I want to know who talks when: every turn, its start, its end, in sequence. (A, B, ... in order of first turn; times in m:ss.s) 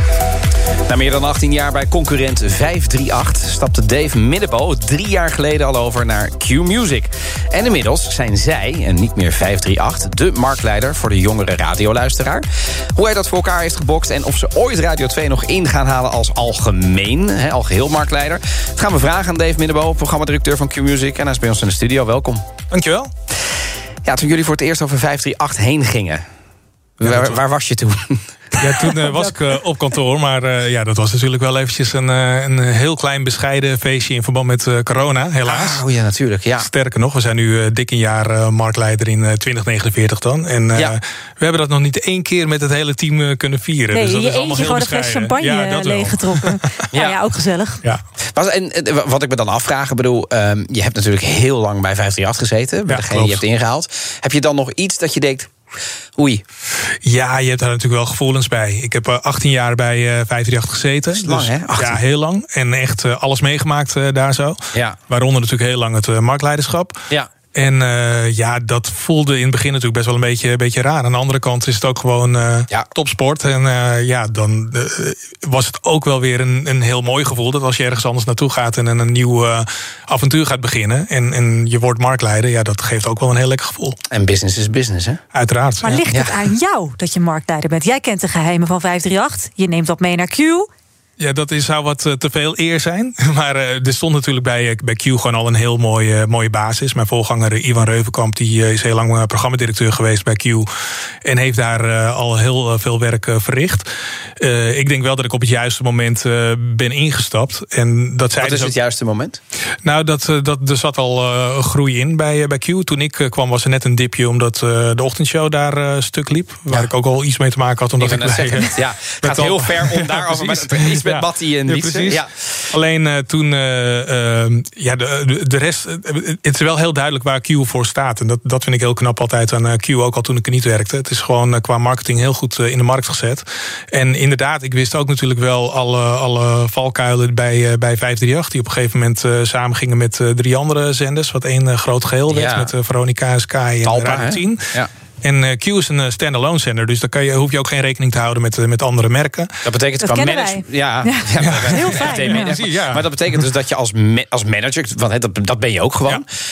0:00.9-0:22.4 A
0:22.7-0:23.1 B
0:24.0-0:26.2 A
0:27.0-0:29.0 A
0:27.0-0:27.4 B
0:28.6-0:35.8 B
0:35.4-0:36.7 A
0:36.6-0:46.8 B
0:43.9-0:47.8 C
0:46.9-0:47.2 A
0:48.3-0:55.5 A
0:52.8-0:53.4 B
0:56.2-0:56.4 A
0:57.0-1:24.0 B
1:01.1-1:02.0 A
1:24.1-1:25.2 A
1:25.3-1:26.1 B
1:25.8-1:30.7 C
1:26.1-1:26.4 A
1:31.2-1:40.7 B
1:41.2-1:43.9 B
1:44.4-1:48.8 B
1:48.4-1:49.4 A
1:49.8-2:29.6 B
1:58.0-2:02.4 A
2:22.3-2:22.7 A
2:23.8-2:24.9 A
2:29.6-2:36.2 A
2:30.0-2:32.6 C
2:31.4-2:33.4 B